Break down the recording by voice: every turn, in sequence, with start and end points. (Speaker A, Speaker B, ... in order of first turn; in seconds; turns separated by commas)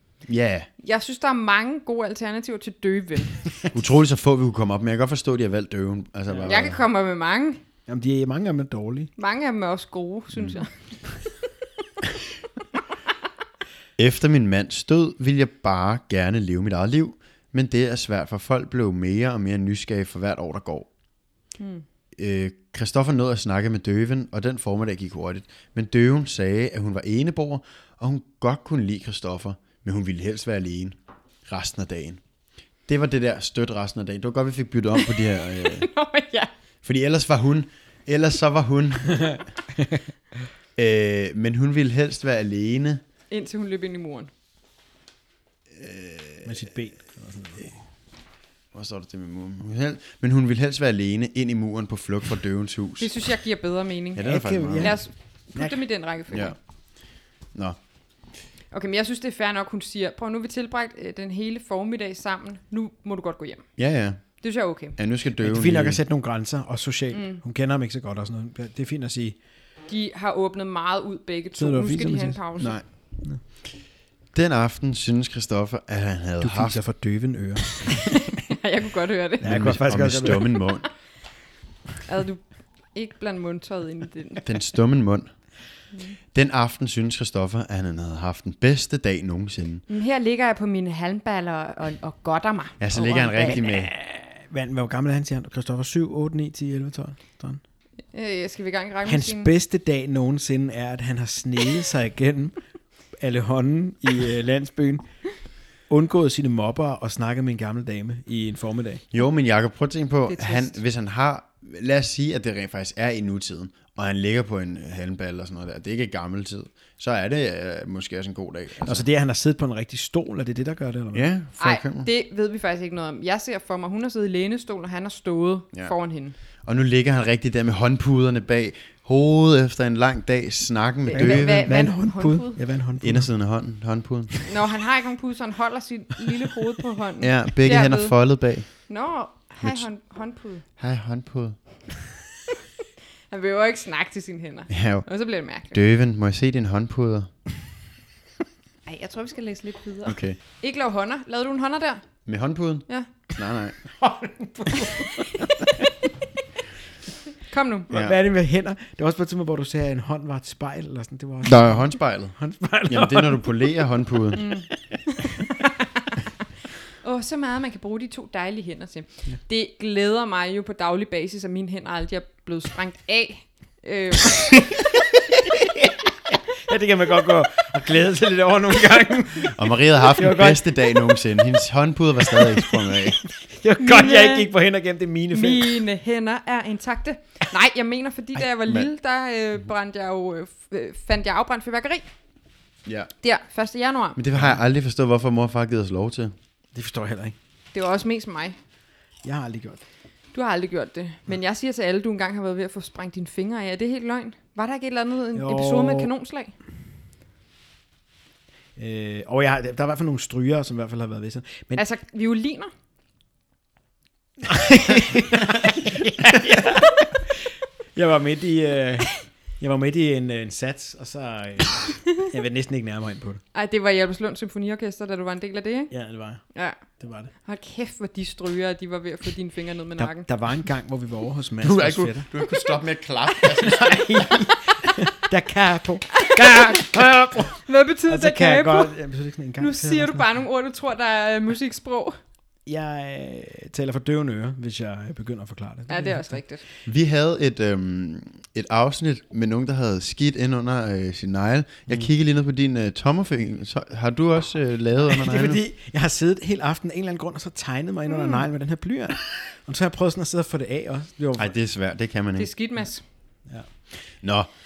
Speaker A: 0.2-0.7, Speaker B: 0.8-3.5, Speaker A: 3.7-6.8, Speaker C: 6.3-6.6, Speaker B: 6.4-7.6, Speaker C: 7.9-9.1, Speaker B: 9.2-11.0, Speaker A: 14.0-20.9, Speaker B: 21.6-21.8, Speaker A: 22.1-30.9, Speaker A: 31.4-32.2, Speaker A: 32.9-35.9, Speaker B: 35.0-36.5, Speaker A: 36.8-39.4, Speaker A: 40.8-43.0, Speaker B: 43.3-44.3, Speaker A: 45.7-46.5, Speaker C: 46.4-47.7, Speaker A: 48.7-53.1, Speaker B: 53.0-54.2, Speaker A: 54.1-55.0, Speaker C: 54.2-55.8, Speaker B: 54.8-56.5, Speaker A: 56.3-56.5, Speaker B: 58.7-63.7, Speaker A: 63.8-64.2, Speaker B: 64.4-65.0, Speaker A: 65.0-66.0, Speaker C: 65.4-69.3, Speaker B: 67.1-67.4, Speaker B: 69.9-72.8, Speaker C: 71.6-72.4, Speaker A: 72.6-72.8, Speaker A: 74.3-76.8, Speaker C: 76.4-78.1, Speaker B: 78.2-79.5, Speaker C: 79.4-80.5, Speaker A: 79.4-80.9, Speaker B: 82.0-84.4, Speaker A: 84.4-85.3, Speaker A: 86.3-89.8, Speaker B: 89.9-93.6, Speaker A: 92.8-93.9, Speaker C: 93.6-97.6, Speaker B: 98.1-99.5, Speaker C: 99.0-102.6, Speaker C: 103.2-105.0, Speaker C: 105.9-109.0, Speaker A: 109.1-119.1, Speaker B: 110.3-110.8, Speaker C: 118.8-121.3, Speaker A: 121.1-122.1, Speaker B: 121.6-126.3, Speaker A: 126.6-131.7, Speaker B: 131.1-132.6, Speaker C: 131.1-133.3, Speaker A: 133.0-134.4, Speaker B: 134.4-138.2, Speaker A: 137.2-138.7, Speaker B: 138.7-140.6, Speaker A: 139.6-139.9, Speaker A: 140.8-141.6, Speaker B: 143.3-145.8, Speaker A: 144.7-145.1, Speaker A: 145.7-147.3, Speaker B: 148.9-152.1, Speaker A: 150.0-150.4, Speaker A: 152.2-153.8, Speaker C: 154.0-155.7, Speaker B: 157.5-157.9, Speaker C: 157.9-163.7, Speaker A: 157.9-158.2, Speaker A: 161.4-164.5, Speaker B: 164.3-166.3, Speaker B: 166.9-174.8, Speaker C: 175.7-181.3, Speaker A: 179.5-183.2, Speaker C: 182.3-185.8, Speaker B: 183.8-184.5, Speaker B: 185.3-192.0, Speaker A: 192.8-193.1, Speaker B: 193.2-194.2, Speaker A: 194.2-196.3, Speaker C: 196.7-197.3, Speaker B: 197.7-198.6, Speaker C: 199.2-199.8, Speaker B: 200.3-206.5, Speaker C: 205.3-206.1, Speaker C: 208.8-211.8, Speaker B: 211.7-212.7, Speaker C: 214.4-223.4, Speaker B: 223.5-225.9, Speaker C: 225.9-227.3, Speaker B: 226.5-226.8, Speaker B: 227.4-230.3, Speaker C: 230.0-232.3, Speaker A: 231.6-234.5, Speaker C: 233.5-240.3, Speaker B: 236.2-237.0, Speaker B: 237.6-238.9, Speaker B: 239.6-242.2, Speaker C: 242.7-246.4, Speaker B: 245.9-246.6, Speaker A: 246.8-255.6, Speaker C: 255.0-261.5, Speaker B: 258.1-258.5, Speaker A: 261.4-262.5, Speaker B: 262.4-263.0, Speaker A: 264.1-264.5